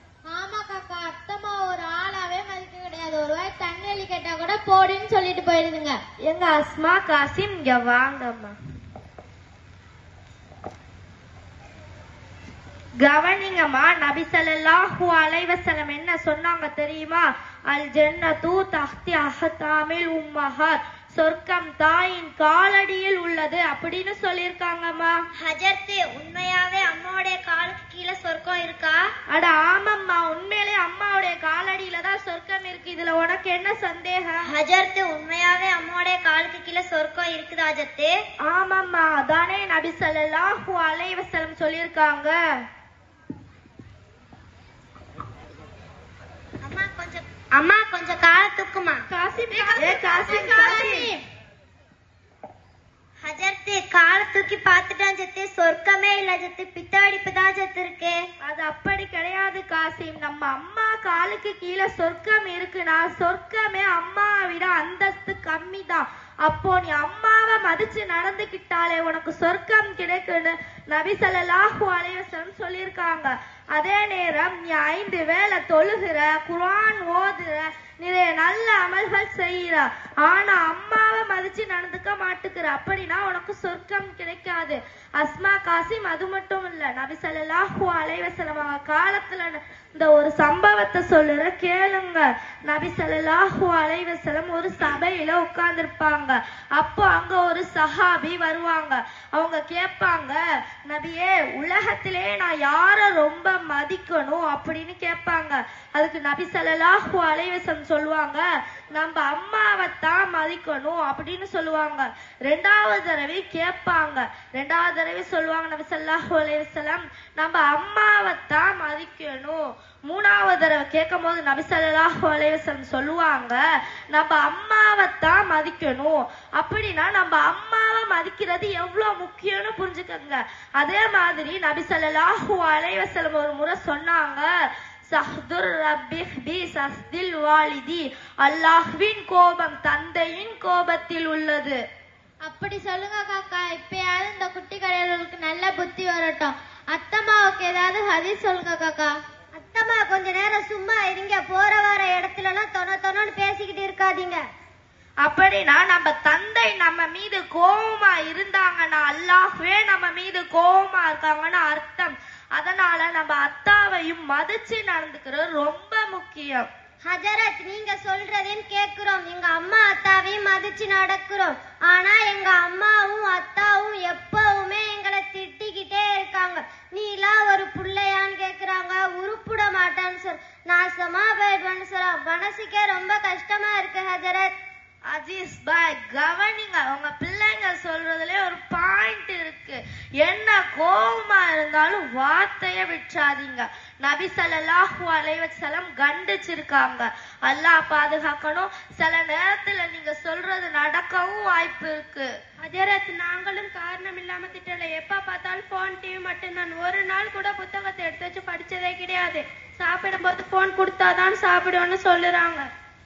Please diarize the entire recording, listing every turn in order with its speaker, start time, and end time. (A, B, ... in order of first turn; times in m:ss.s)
0:00.3-0:06.0 A
0:06.2-0:08.6 B
0:13.0-0:25.2 B
0:25.4-0:29.1 C
0:29.3-0:34.5 B
0:34.4-0:38.2 C
0:38.4-0:42.4 B
0:46.6-0:49.1 C
0:49.1-0:50.0 D
0:49.5-0:51.2 A
0:49.7-0:51.1 B
0:53.2-0:58.3 C
0:58.4-2:03.6 B
2:04.1-2:14.5 B
2:15.1-2:21.8 B
2:22.4-2:29.1 A
2:29.6-2:34.4 C
2:35.2-2:46.7 B
2:47.0-3:04.5 C
3:05.1-3:22.3 B
3:22.6-3:32.7 D